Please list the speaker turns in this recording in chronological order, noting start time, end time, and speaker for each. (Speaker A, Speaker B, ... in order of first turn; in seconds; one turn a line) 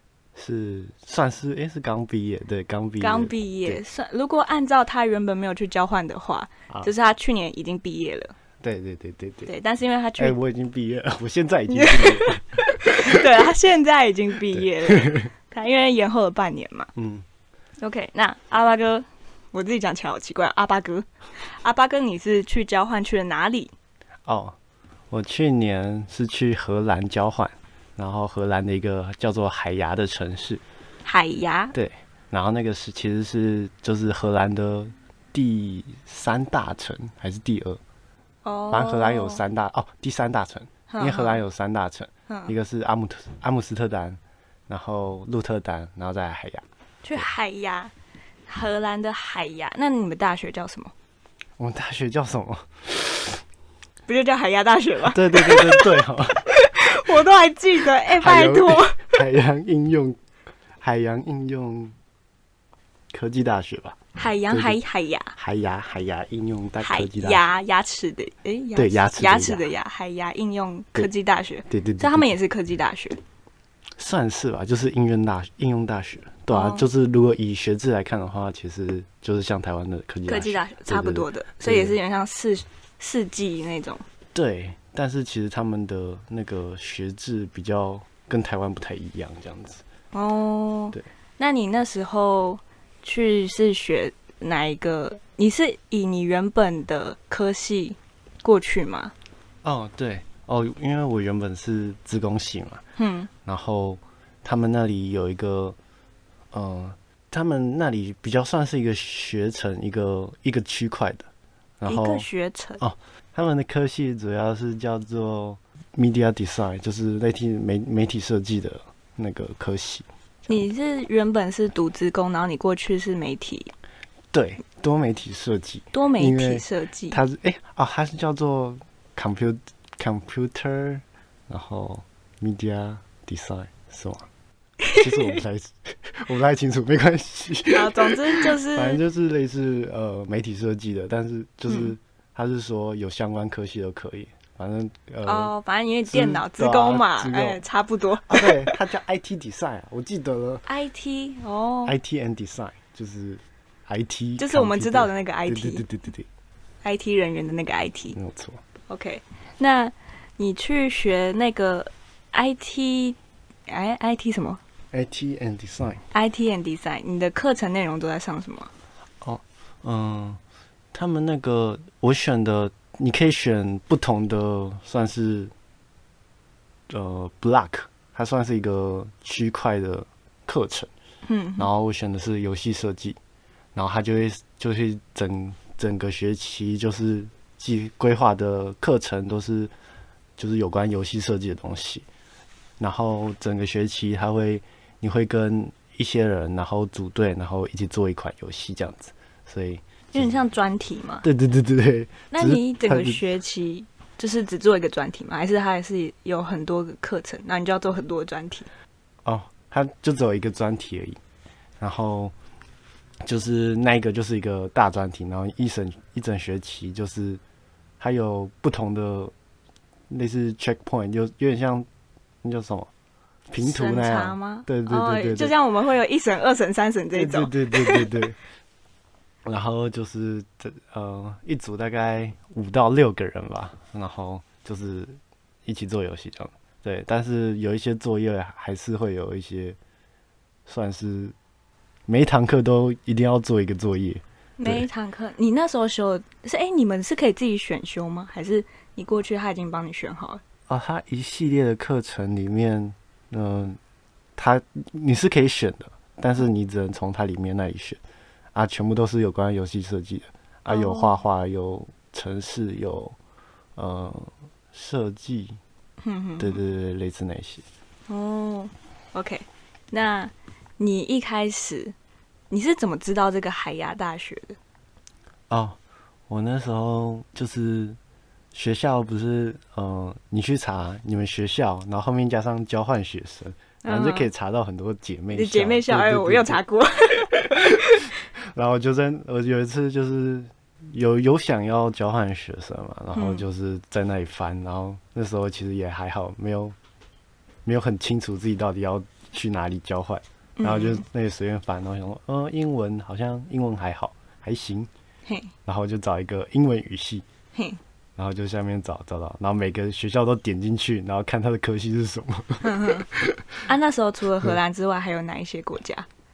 Speaker A: 0.3-3.8
Speaker B: 3.0-8.3
Speaker A: 8.6-9.5
Speaker B: 9.4-10.3
Speaker A: 10.2-13.2
Speaker B: 11.7-16.9
Speaker A: 14.5-15.2
Speaker A: 16.9-17.2
Speaker B: 17.8-21.1
Speaker B: 21.6-23.7
Speaker A: 24.2-24.6
Speaker A: 25.1-30.6
Speaker B: 31.0-31.7
Speaker A: 31.7-37.8
Speaker B: 38.4-39.4
Speaker A: 38.7-46.6
Speaker B: 40.9-41.4
Speaker B: 42.3-42.5
Speaker B: 47.0-47.9
Speaker B: 48.5-50.9
Speaker A: 51.6-53.4
Speaker B: 54.1-59.2
Speaker A: 55.0-56.5
Speaker A: 58.1-60.2
Speaker A: 60.8-61.9
Speaker A: 63.1-64.0
Speaker B: 64.1-65.3
Speaker A: 64.5-64.8
Speaker A: 65.3-67.4
Speaker B: 66.8-73.2
Speaker A: 68.8-69.7
Speaker A: 71.7-72.3
Speaker A: 74.0-82.0
Speaker B: 76.5-76.8
Speaker B: 80.3-84.0
Speaker A: 84.3-89.8
Speaker B: 90.1-99.1
Speaker A: 99.6-102.8
Speaker B: 103.0-103.3
Speaker A: 103.4-105.8
Speaker A: 106.5-112.3
Speaker B: 111.8-112.8
Speaker A: 112.8-120.5
Speaker B: 120.5-123.7
Speaker A: 124.3-134.3
Speaker B: 125.9-127.2
Speaker B: 134.8-135.4
Speaker A: 134.9-145.5
Speaker B: 137.7-139.0
Speaker B: 141.7-141.9
Speaker B: 145.2-148.8
Speaker A: 146.1-147.6
Speaker A: 148.3-150.6
Speaker B: 150.7-151.9
Speaker A: 151.8-156.3
Speaker B: 154.4-155.8
Speaker B: 156.8-158.2
Speaker A: 158.1-158.6
Speaker B: 158.9-163.2
Speaker B: 163.7-164.6
Speaker A: 164.9-166.0
Speaker B: 166.1-168.7
Speaker A: 169.2-170.4
Speaker A: 170.9-175.5
Speaker A: 176.9-180.9
Speaker B: 181.2-181.7
Speaker A: 181.6-183.2
Speaker A: 183.7-189.7
Speaker A: 190.4-192.1
Speaker A: 192.8-200.3
Speaker B: 200.1-201.2
Speaker A: 201.2-203.2
Speaker B: 202.3-208.7
Speaker A: 209.2-211.2
Speaker A: 211.8-212.3
Speaker A: 213.2-217.4
Speaker A: 218.0-219.3
Speaker A: 220.1-221.9
Speaker A: 222.4-222.9
Speaker A: 223.5-225.5
Speaker B: 223.6-228.2
Speaker A: 227.1-228.4
Speaker A: 229.4-239.8
Speaker A: 240.7-241.3
Speaker A: 242.1-244.8
Speaker B: 244.6-250.4
Speaker A: 250.7-253.8
Speaker A: 254.3-258.0
Speaker A: 258.5-263.1
Speaker B: 260.7-261.1
Speaker A: 263.8-265.6
Speaker B: 266.0-266.6
Speaker A: 266.4-267.6
Speaker B: 268.1-271.9
Speaker B: 272.5-274.6
Speaker A: 275.5-278.0
Speaker A: 278.5-286.6
Speaker B: 283.8-284.3
Speaker B: 285.3-288.0
Speaker A: 287.4-296.8
Speaker B: 293.1-293.4
Speaker A: 297.6-304.9
Speaker B: 300.6-301.0
Speaker B: 305.3-305.5
Speaker A: 305.6-307.2
Speaker B: 307.5-307.8
Speaker A: 308.2-313.6
Speaker B: 312.6-313.1
Speaker B: 313.6-316.1